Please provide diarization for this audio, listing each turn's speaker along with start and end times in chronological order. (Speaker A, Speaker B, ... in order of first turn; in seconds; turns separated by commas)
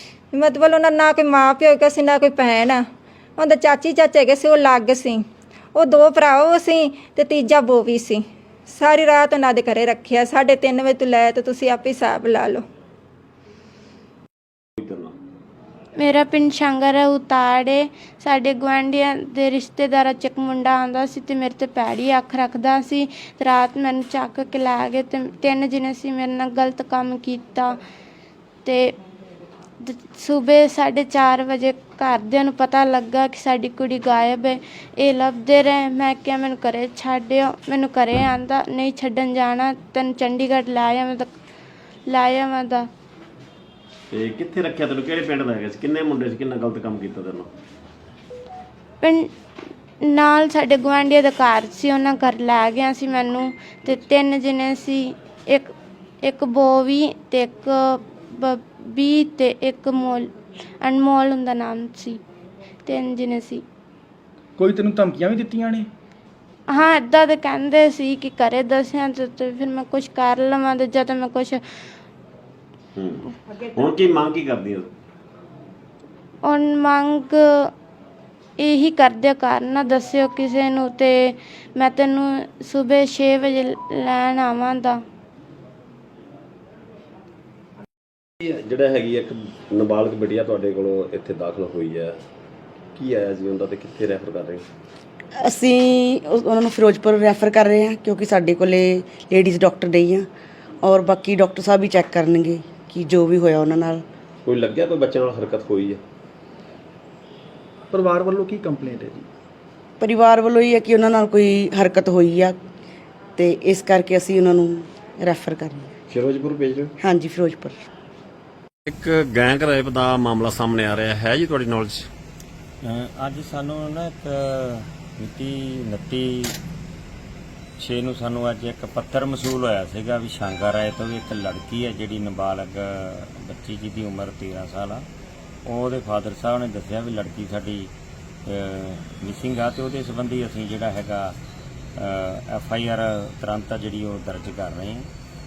Speaker A: 0.3-2.8, Speaker A: 3.4-5.2, Speaker A: 5.8-12.6, Speaker B: 14.8-15.1, Speaker C: 16.0-27.8, Speaker C: 28.6-28.9, Speaker C: 29.8-41.3, Speaker C: 42.1-42.9, Speaker B: 44.1-47.5, Speaker C: 49.0-49.3, Speaker C: 50.0-55.7, Speaker C: 56.2-62.2, Speaker C: 62.9-63.6, Speaker D: 64.6-65.8, Speaker C: 66.7-71.6, Speaker B: 73.0-74.9, Speaker C: 76.4-77.7, Speaker C: 78.6-85.0, Speaker B: 88.4-92.2, Speaker B: 93.0-94.7, Speaker E: 95.3-100.3, Speaker E: 100.8-104.0, Speaker B: 104.4-106.0, Speaker D: 107.9-109.3, Speaker E: 110.0-112.6, Speaker E: 113.4-115.9, Speaker B: 116.1-116.9, Speaker E: 117.0-117.8, Speaker B: 118.9-122.1, Speaker F: 122.8-126.6, Speaker F: 127.8-135.1, Speaker F: 135.7-137.9, Speaker F: 138.5-141.4, Speaker F: 142.0-145.1